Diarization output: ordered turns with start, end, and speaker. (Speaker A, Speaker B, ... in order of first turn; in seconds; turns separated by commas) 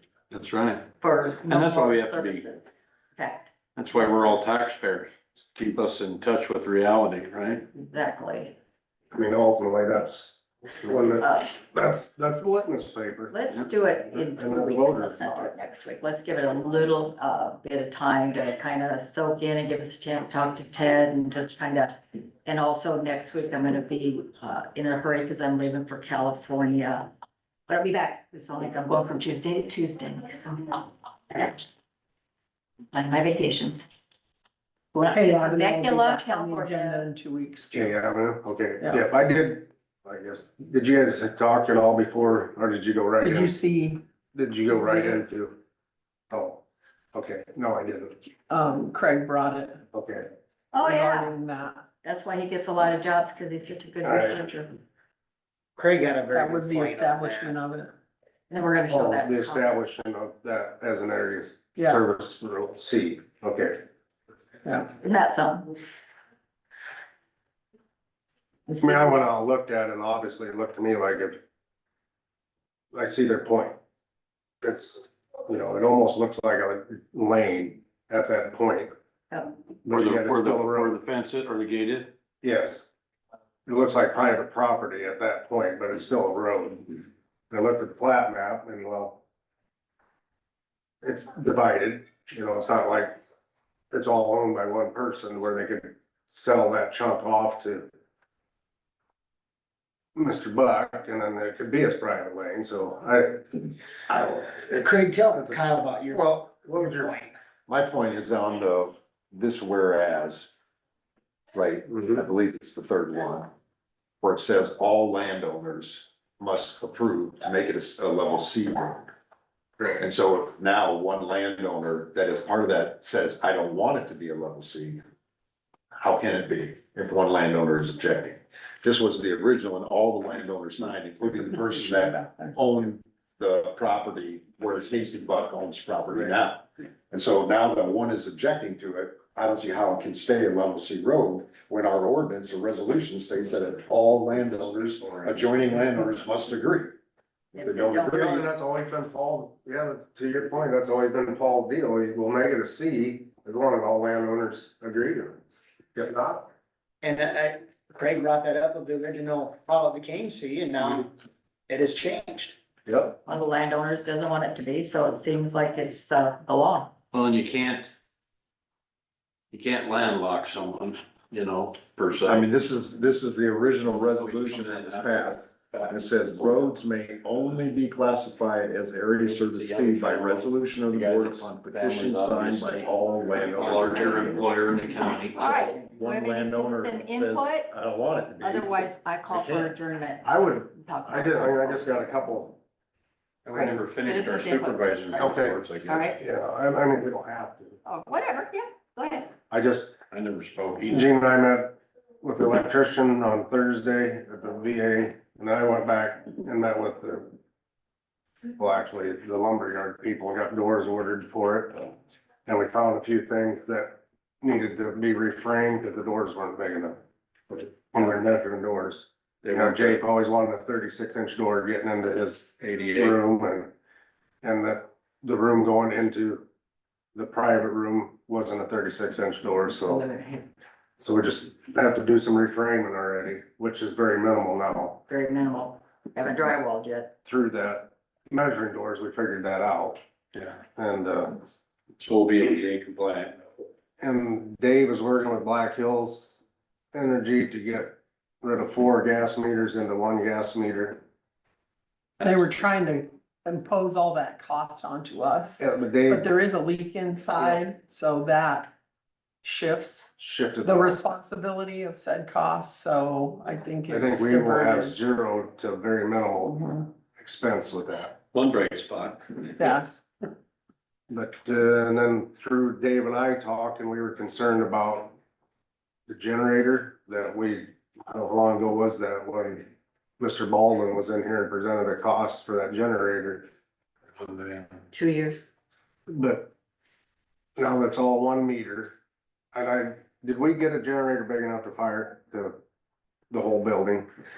Speaker A: 0.3-0.9, Speaker B: 1.0-3.5, Speaker A: 1.4-2.5, Speaker A: 3.8-7.7, Speaker B: 7.8-8.6, Speaker C: 9.1-13.3, Speaker B: 11.2-11.5, Speaker B: 13.3-27.1, Speaker C: 14.1-15.5, Speaker B: 27.7-31.6, Speaker B: 32.9-33.8, Speaker B: 34.9-37.1, Speaker D: 35.1-38.0, Speaker C: 37.7-43.5, Speaker D: 38.8-39.1, Speaker D: 43.2-44.0, Speaker C: 44.3-45.6, Speaker D: 44.7-45.2, Speaker C: 46.3-48.1, Speaker D: 48.5-49.8, Speaker C: 49.9-50.3, Speaker B: 50.7-51.4, Speaker D: 50.8-51.8, Speaker B: 52.0-54.7, Speaker C: 54.0-54.5, Speaker E: 55.8-57.5, Speaker D: 56.3-57.9, Speaker B: 58.5-59.8, Speaker C: 58.9-63.8, Speaker D: 61.8-62.0, Speaker D: 64.6-64.9, Speaker B: 65.0-65.8, Speaker B: 68.7-69.3, Speaker C: 68.8-71.4, Speaker C: 72.9-73.8, Speaker C: 74.6-78.9, Speaker C: 79.8-80.9, Speaker A: 79.9-82.1, Speaker C: 82.4-82.9, Speaker C: 83.7-89.2, Speaker C: 91.0-93.2, Speaker C: 93.9-97.9, Speaker C: 100.1-103.6, Speaker E: 104.1-107.3, Speaker C: 106.7-107.1, Speaker F: 107.7-110.5, Speaker F: 111.5-113.5, Speaker C: 111.9-112.2, Speaker F: 114.2-119.1, Speaker F: 119.9-125.0, Speaker F: 125.9-146.9, Speaker D: 132.1-132.5, Speaker C: 144.9-145.5, Speaker F: 147.6-148.5, Speaker C: 147.6-155.4, Speaker C: 155.9-156.4, Speaker E: 157.0-161.1, Speaker E: 161.7-162.6, Speaker C: 162.9-163.2, Speaker B: 163.2-166.9, Speaker A: 167.1-167.9, Speaker A: 169.5-172.4, Speaker F: 172.2-184.5, Speaker A: 173.9-176.8, Speaker A: 177.3-177.6, Speaker A: 179.2-185.7, Speaker B: 185.1-187.7, Speaker F: 185.5-189.7, Speaker B: 188.4-191.9, Speaker C: 190.2-192.6, Speaker A: 193.4-196.1, Speaker B: 193.5-196.2, Speaker C: 195.2-195.6, Speaker C: 196.2-197.8, Speaker B: 197.8-199.3, Speaker C: 199.5-199.9, Speaker A: 200.1-201.1, Speaker C: 200.9-207.3, Speaker C: 208.6-211.9, Speaker C: 212.4-223.7, Speaker A: 219.4-220.0, Speaker A: 222.7-223.2, Speaker C: 224.4-226.4, Speaker C: 227.1-230.0, Speaker B: 229.8-230.5, Speaker C: 231.0-235.0, Speaker B: 235.1-237.1, Speaker C: 237.2-240.0, Speaker C: 240.7-241.4, Speaker A: 242.0-243.4, Speaker C: 244.0-246.4, Speaker C: 246.9-251.0, Speaker D: 252.2-258.7, Speaker C: 255.6-256.3, Speaker D: 259.4-265.0, Speaker C: 260.2-261.0, Speaker C: 263.9-268.1, Speaker D: 266.4-266.8, Speaker A: 268.3-269.5, Speaker D: 269.6-270.1, Speaker C: 271.1-275.1, Speaker C: 276.1-283.5, Speaker A: 284.2-284.8, Speaker B: 284.9-285.4, Speaker C: 286.1-286.5, Speaker C: 287.6-288.9, Speaker C: 289.5-292.6, Speaker C: 293.3-294.1